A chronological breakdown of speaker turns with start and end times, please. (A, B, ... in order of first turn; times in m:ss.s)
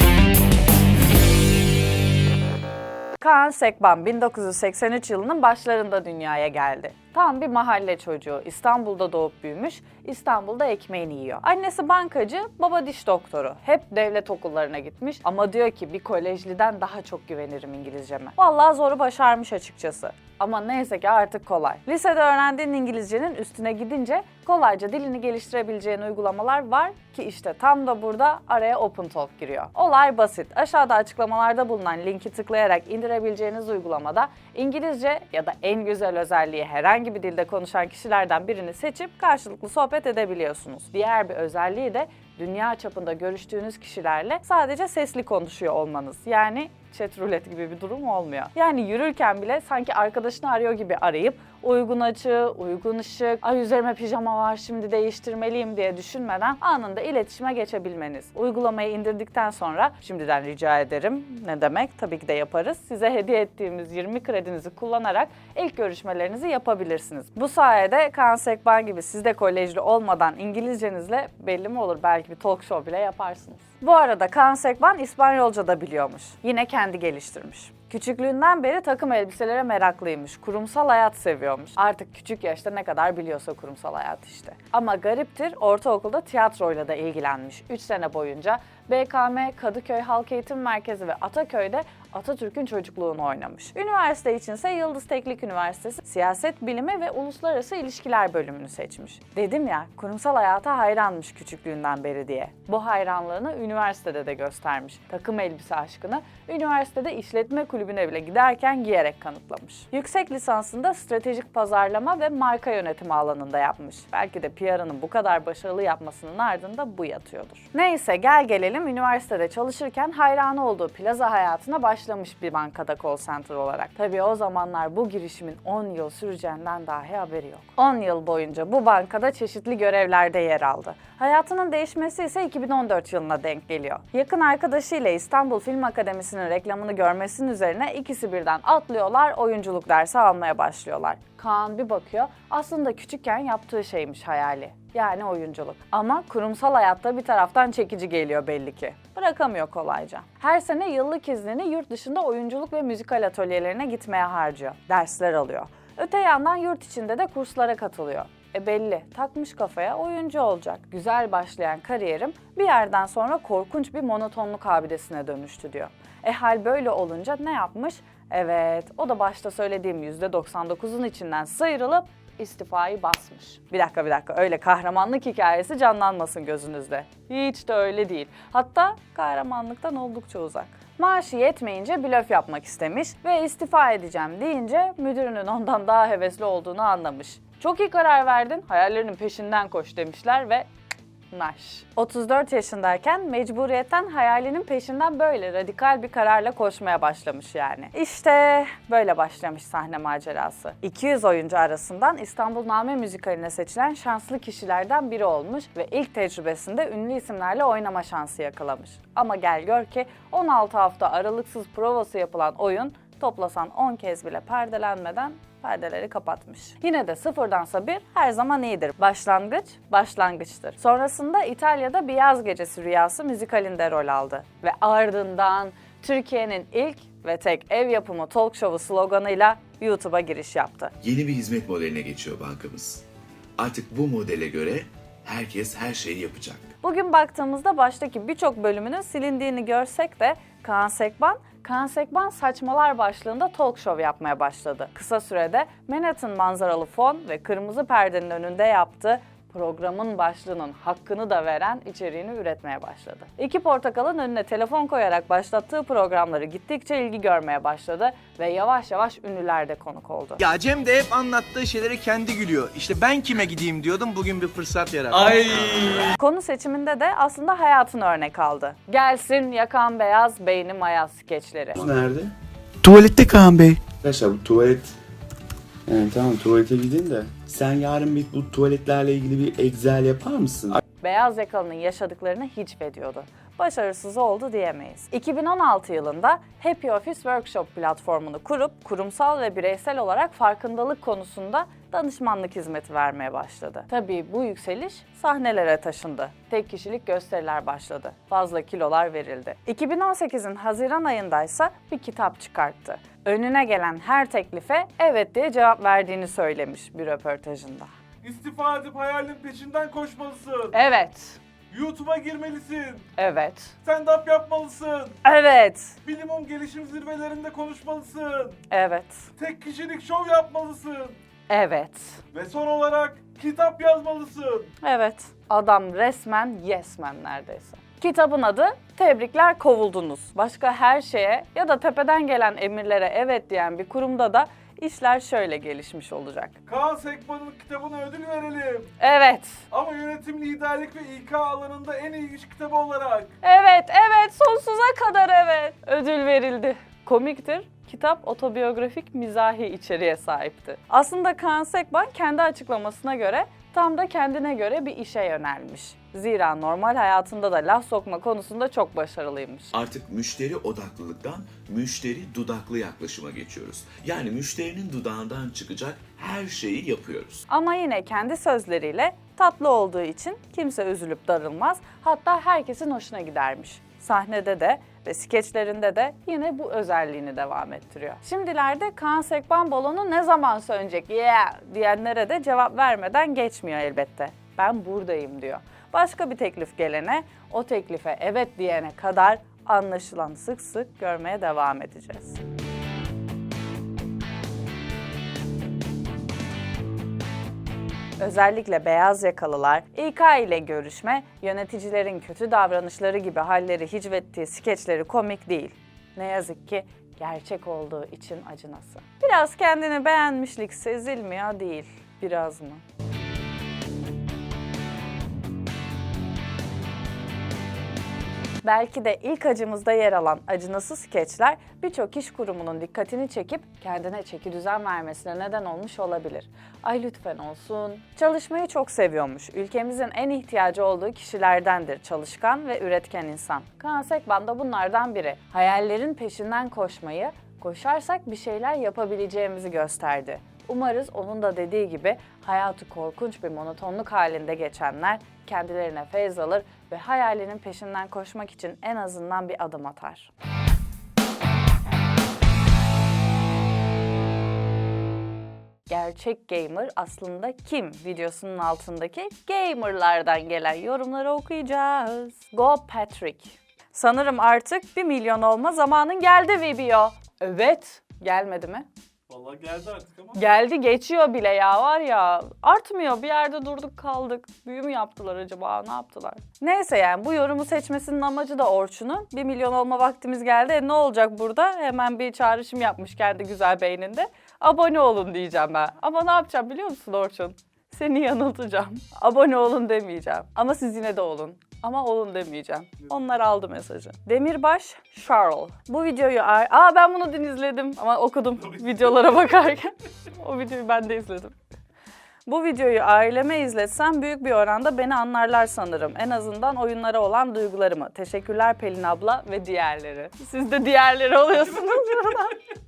0:03.2-3:10.7 A
3:11.3-3:50.9 A
3:51.0-3:53.0 B
3:53.6-3:56.7 B
3:56.8-4:20.4 A
4:20.4-4:26.2 C
4:26.2-4:31.8 A
4:31.8-4:32.3 D
4:33.8-4:34.9 D
4:35.9-4:40.8 D
4:41.0-5:07.9 A
5:08.2-5:10.8 E
5:10.7-5:11.4 A
5:11.7-5:13.1 E
5:13.2-5:13.8 A
5:13.8-5:15.2 E
5:15.2-5:16.0 A
5:16.0-5:18.6 E
5:18.7-5:19.3 A
5:19.4-5:21.2 E
5:21.5-5:22.2 A
5:22.3-5:24.8 E
5:24.8-5:36.6 A
5:36.7-5:38.9 E
5:39.0-5:39.6 A
5:39.7-5:43.3 E
5:43.4-5:59.7 A
5:59.7-6:07.5 B
6:07.5-6:32.4 A
6:38.2-6:52.8 A
6:58.6-7:30.3 A
7:35.9-7:48.9 A
7:49.3-7:50.4 E
7:50.4-8:21.6 A
8:22.5-8:32.6 A